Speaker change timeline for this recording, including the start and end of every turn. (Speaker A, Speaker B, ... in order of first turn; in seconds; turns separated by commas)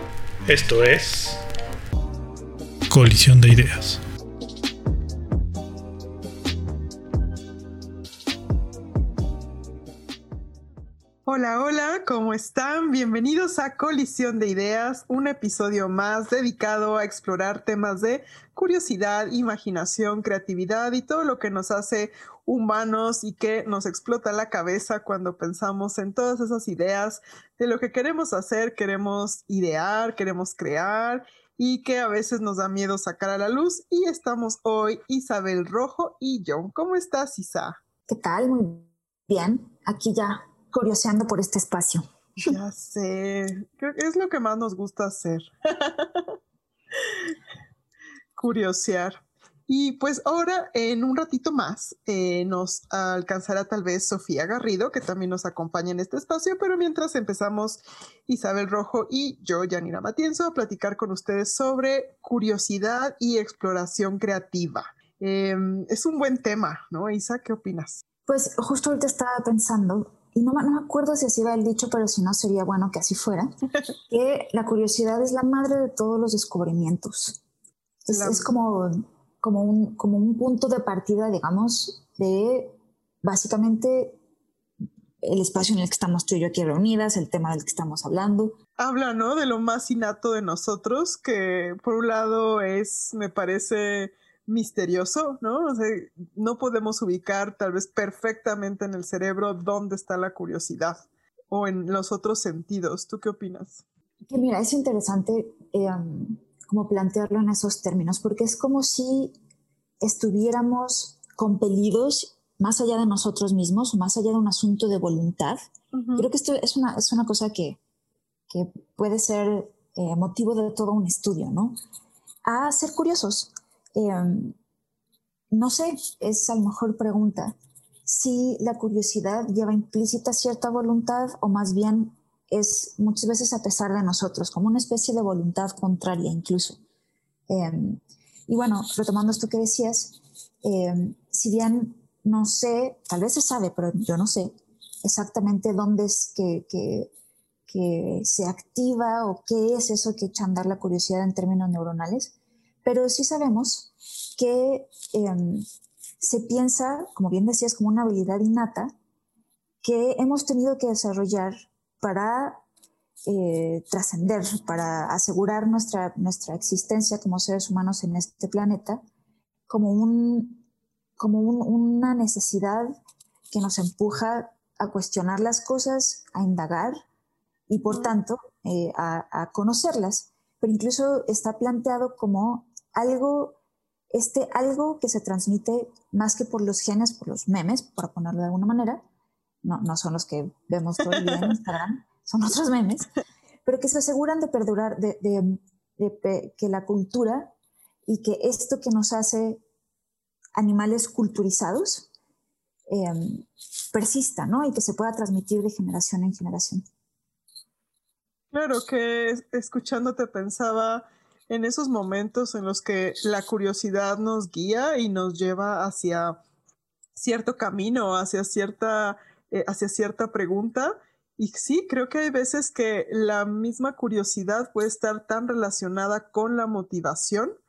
Speaker A: 0.5-1.4, Speaker A: 2.9-4.0, Speaker B: 11.3-37.8, Speaker C: 38.1-42.5, Speaker B: 42.4-46.3, Speaker B: 48.4-68.0, Speaker C: 68.2-73.5, Speaker C: 74.1-77.4, Speaker C: 78.0-84.2, Speaker B: 78.1-78.5, Speaker C: 85.2-88.6, Speaker B: 88.8-103.8, Speaker C: 104.3-109.3, Speaker C: 110.0-115.6, Speaker B: 115.9-116.3, Speaker C: 116.2-117.8, Speaker C: 118.5-121.8, Speaker C: 122.5-124.6, Speaker C: 125.5-136.8, Speaker C: 137.5-147.1, Speaker C: 147.7-155.7, Speaker C: 156.2-158.9, Speaker C: 159.8-162.6, Speaker C: 163.3-169.0, Speaker C: 169.7-170.6, Speaker C: 171.2-173.0, Speaker C: 173.5-177.0, Speaker C: 177.7-183.6, Speaker B: 177.9-178.1, Speaker C: 184.1-189.0, Speaker C: 189.6-193.1, Speaker C: 193.7-197.5, Speaker C: 198.1-199.6, Speaker C: 200.6-202.1, Speaker C: 202.9-206.8, Speaker B: 208.5-216.4, Speaker B: 217.2-227.6